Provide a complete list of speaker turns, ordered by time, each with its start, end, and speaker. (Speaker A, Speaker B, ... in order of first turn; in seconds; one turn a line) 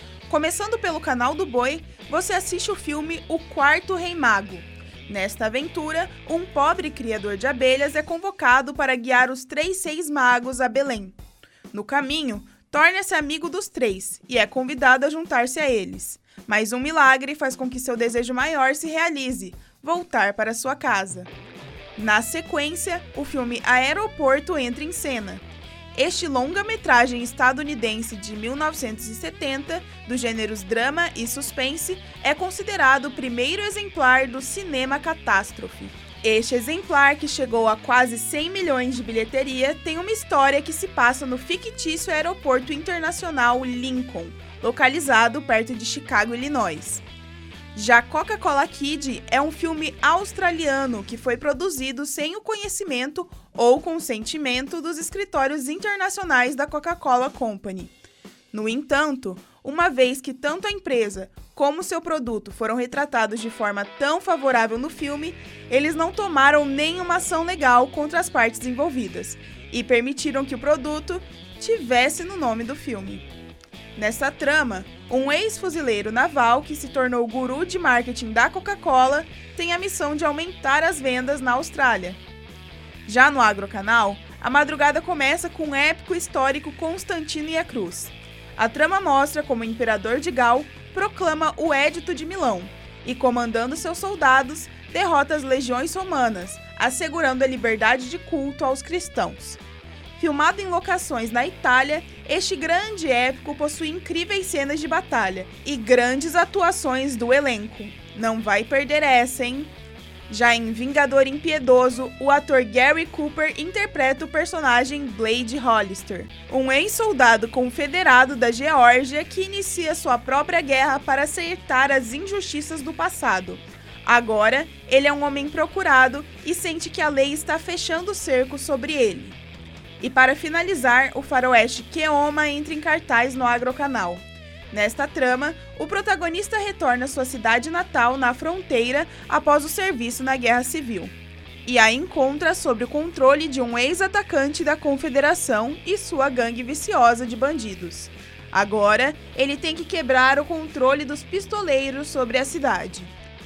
Speaker A: 0.3-11.1
Speaker A: 11.7-21.3
Speaker A: 21.9-25.4
Speaker A: 25.9-47.0
Speaker A: 47.7-57.9
Speaker A: 58.5-73.2
Speaker A: 73.9-82.2
Speaker A: 83.0-99.6
Speaker A: 100.2-109.7
Speaker A: 110.3-129.4
Speaker A: 130.0-141.1
Speaker A: 141.6-153.1